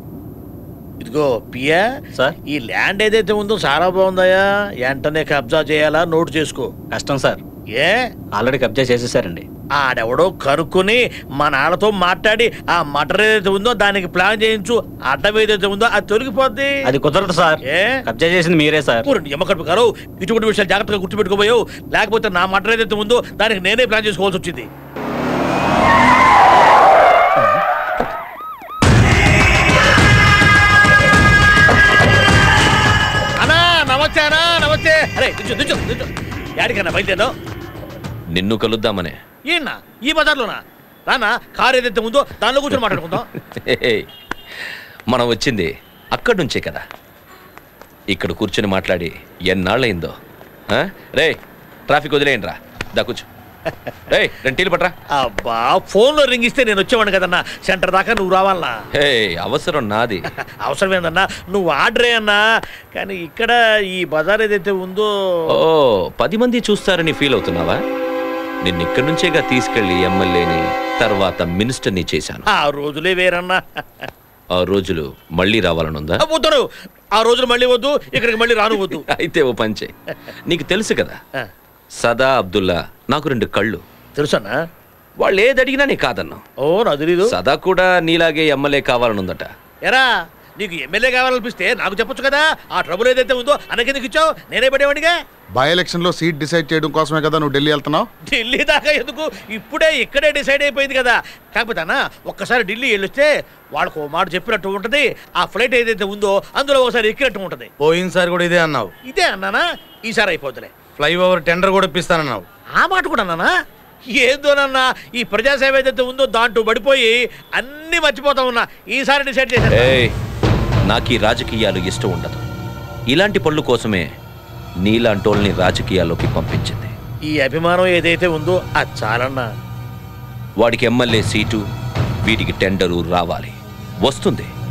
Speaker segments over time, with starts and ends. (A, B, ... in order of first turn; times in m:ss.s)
0:01.0-0:01.8 A
0:02.5-0:06.7 A
0:06.9-0:07.4 B
0:07.8-0:08.1 A
0:08.3-0:09.4 B
0:09.8-0:16.9 A
0:16.8-0:19.0 B
0:17.6-0:18.0 A
0:19.0-0:24.7 A
0:33.4-0:37.3 A
0:38.3-0:39.2 C
0:39.5-0:43.3 A
0:42.8-0:44.0 C
0:45.1-0:46.8 C
0:48.1-0:50.2 C
0:50.7-0:53.2 C
0:53.7-0:53.9 A
0:54.1-0:54.9 C
0:55.1-0:58.8 A
0:59.0-1:00.3 C
1:00.6-1:02.4 A
1:02.9-1:05.1 A
1:05.5-1:07.8 C
1:08.6-1:12.4 C
1:12.5-1:14.1 A
1:14.5-1:16.2 C
1:16.2-1:19.0 A
1:18.7-1:19.9 C
1:20.4-1:21.2 C
1:22.0-1:23.8 C
1:24.1-1:24.6 A
1:25.2-1:26.4 C
1:26.6-1:27.4 A
1:27.3-1:29.5 C
1:30.6-1:35.1 A
1:35.6-1:38.1 D
1:38.2-1:47.7 A
1:47.8-1:48.9 E
1:49.0-1:50.7 A
1:51.0-1:52.4 E
1:52.8-1:53.5 A
1:54.1-2:00.0 A
1:59.7-2:00.1 C
2:00.9-2:02.4 C
2:03.1-2:04.1 C
2:04.8-2:06.9 C
2:07.3-2:09.5 A
2:10.6-2:11.6 C
2:12.2-2:14.5 C